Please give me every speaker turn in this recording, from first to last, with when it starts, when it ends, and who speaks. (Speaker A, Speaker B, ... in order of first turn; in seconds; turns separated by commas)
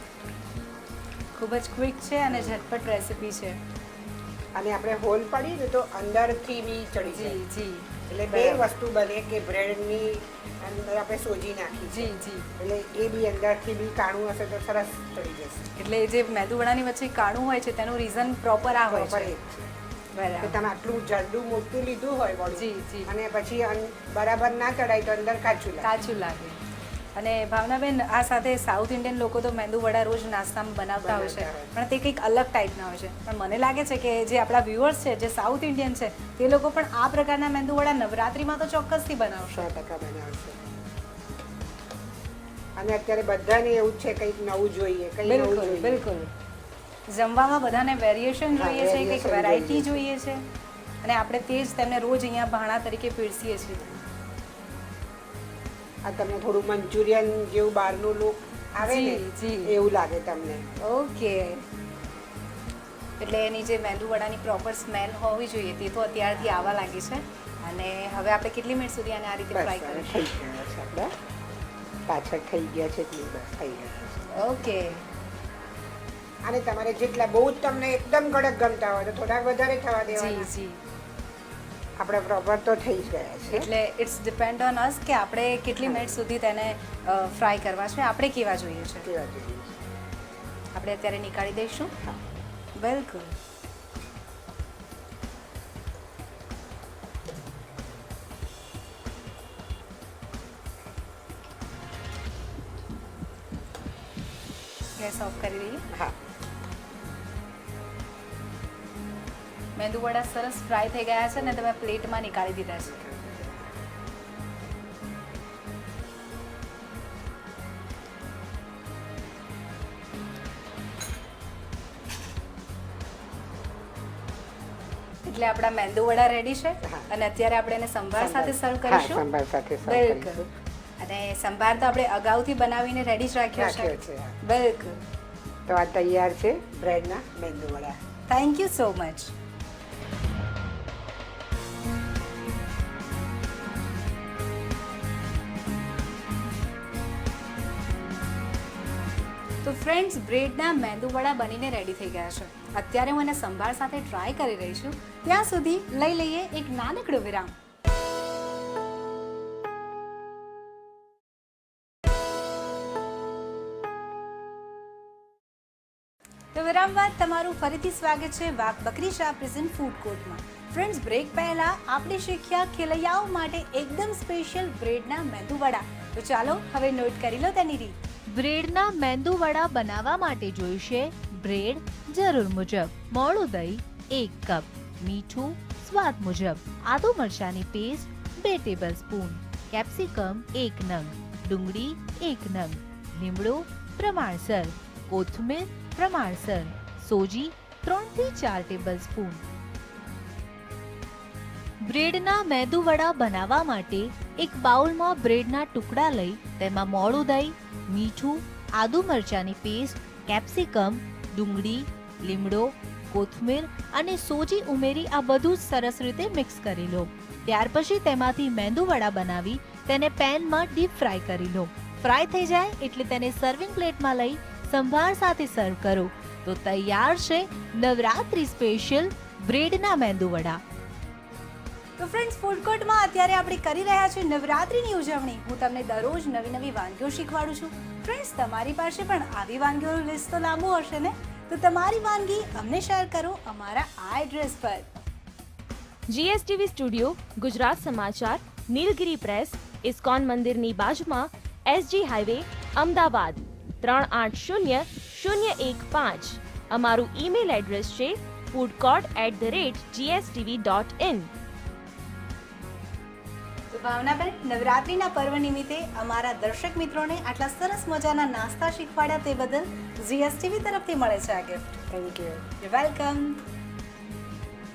Speaker A: 1.4-3.6, Speaker B: 2.3-2.7, Speaker B: 4.5-7.4, Speaker A: 7.0-8.7, Speaker B: 8.1-15.7, Speaker A: 11.9-12.5, Speaker A: 15.8-19.3, Speaker B: 18.7-19.7, Speaker A: 20.1-20.6, Speaker B: 20.4-25.9, Speaker A: 22.5-23.1, Speaker A: 25.8-26.6, Speaker A: 27.1-39.7, Speaker B: 31.0-31.7, Speaker B: 39.5-40.6, Speaker B: 42.8-46.0, Speaker A: 45.2-46.3, Speaker A: 47.1-50.4, Speaker B: 48.5-50.0, Speaker A: 51.0-53.9, Speaker B: 56.0-60.8, Speaker A: 58.8-59.8, Speaker A: 60.8-61.6, Speaker A: 63.2-70.3, Speaker B: 66.3-66.9, Speaker B: 69.5-71.1, Speaker B: 72.1-74.2, Speaker A: 74.3-75.0, Speaker B: 76.4-80.5, Speaker A: 80.1-80.8, Speaker B: 82.0-83.7, Speaker A: 83.5-89.1, Speaker B: 85.8-86.1, Speaker B: 89.0-89.8, Speaker A: 90.7-91.9, Speaker A: 92.8-93.3, Speaker A: 105.0-105.8, Speaker B: 105.9-106.2, Speaker A: 109.8-113.0, Speaker B: 111.4-111.7, Speaker B: 112.9-113.7, Speaker A: 125.2-129.2, Speaker B: 126.8-127.1, Speaker B: 128.2-130.5, Speaker A: 129.8-130.4, Speaker A: 131.0-135.0, Speaker B: 133.5-134.4, Speaker B: 135.7-138.0, Speaker A: 138.3-139.3, Speaker A: 149.6-157.5, Speaker A: 166.5-177.9, Speaker C: 178.3-199.4, Speaker C: 201.9-230.6, Speaker A: 232.0-244.9, Speaker D: 246.1-261.3, Speaker A: 263.7-273.4, Speaker B: 271.9-272.3